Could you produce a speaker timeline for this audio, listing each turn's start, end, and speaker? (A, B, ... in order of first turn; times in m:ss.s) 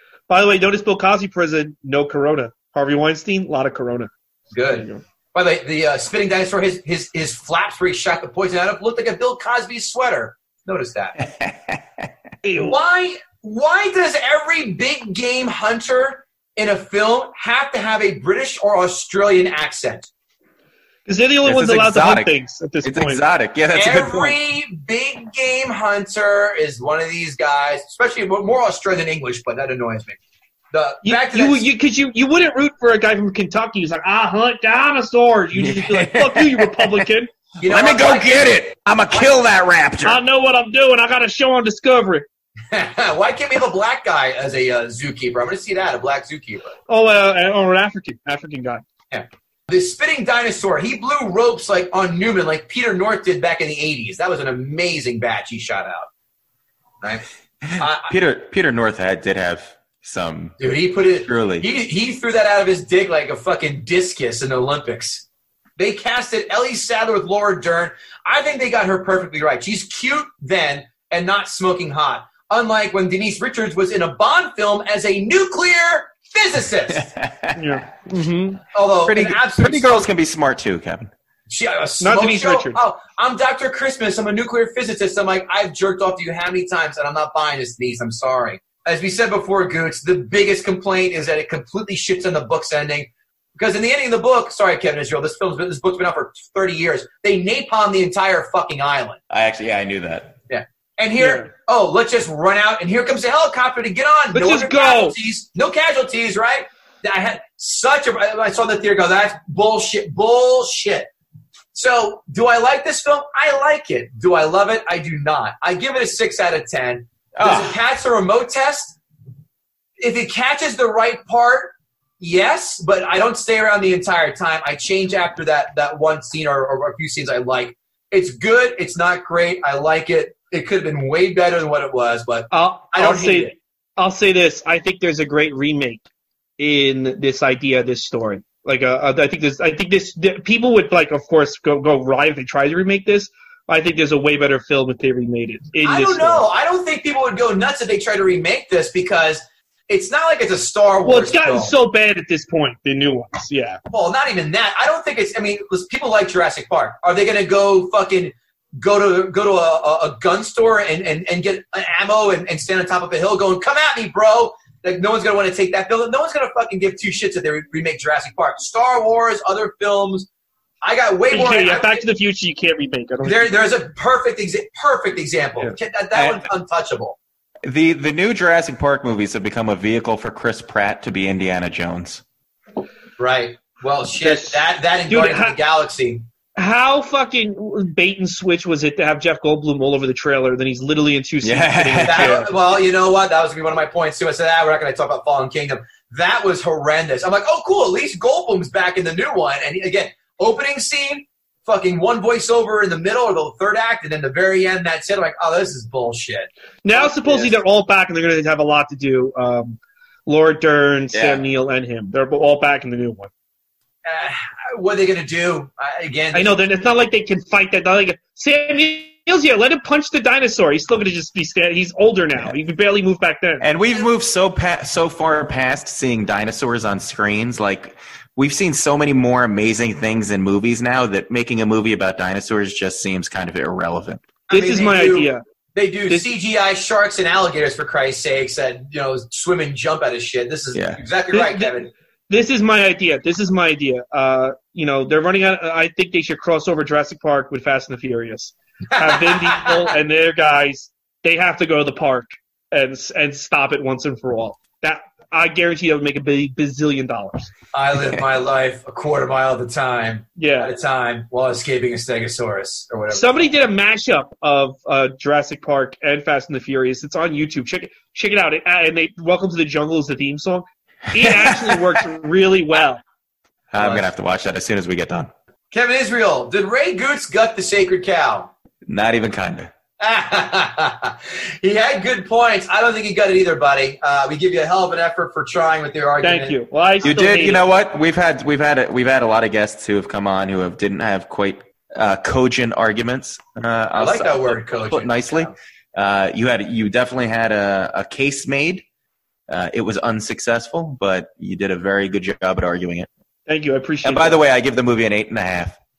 0:00.3-0:04.1 A
0:04.5-0:11.2 B
0:04.7-0:05.0 A
0:11.2-0:12.1 C
0:12.4-0:12.8 A
0:12.6-0:20.1 B
0:21.1-0:23.2 A
0:21.4-0:24.4 C
0:23.7-0:30.2 B
0:30.7-0:31.7 B
0:31.0-0:37.3 A
0:35.5-0:37.0 C
0:37.6-0:38.6 B
0:37.7-0:40.2 C
0:40.0-0:42.2 A
0:42.7-0:46.7 B
0:46.9-0:48.8 A
0:49.1-0:56.1 B
0:57.7-1:00.6 C
0:57.8-0:58.1 B
1:00.6-1:05.2 B
1:01.2-1:01.7 C
1:05.8-1:17.1 B
1:16.9-1:17.8 C
1:17.6-1:18.6 A
1:18.7-1:20.0 B
1:19.0-1:21.1 C
1:21.5-1:39.2 B
1:22.0-1:22.8 A
1:39.3-1:40.4 C
1:40.5-1:51.1 B
1:41.2-1:41.5 A
1:44.3-1:45.1 A
1:51.7-1:59.0 B
1:57.4-1:57.8 C
2:00.0-2:13.5 B
2:12.5-2:16.0 A
2:16.6-2:26.4 A
2:25.8-2:31.7 B
2:31.0-2:33.8 A
2:33.9-2:50.3 B
2:50.8-2:52.0 B
2:51.3-2:53.5 A
2:53.2-2:57.2 B
2:55.6-2:56.4 A
2:57.6-3:02.2 C
3:03.2-3:06.2 B
3:04.2-3:05.6 A
3:06.6-3:12.5 A
3:11.4-3:12.4 C
3:12.0-3:27.6 B
3:26.8-3:33.3 A
3:31.1-3:31.4 C
3:34.0-3:36.6 B
3:36.3-3:43.6 A
3:43.6-3:54.2 C
3:54.5-4:01.9 B
3:54.5-3:55.4 A
4:00.7-4:01.0 C
4:01.3-4:01.7 A
4:02.3-4:17.5 A
4:08.9-4:09.8 B
4:17.7-4:23.4 B
4:20.4-4:20.7 A
4:23.1-4:33.0 A
4:31.2-4:32.0 C
4:33.7-4:35.3 C
4:33.8-4:34.1 B
4:35.7-4:38.5 B
4:38.9-4:39.7 C
4:40.0-4:46.6 B
4:46.2-4:47.6 A
4:47.0-4:58.8 C
4:53.9-4:55.5 B
4:59.5-5:03.1 C
5:03.5-5:04.4 A
5:04.0-5:05.8 C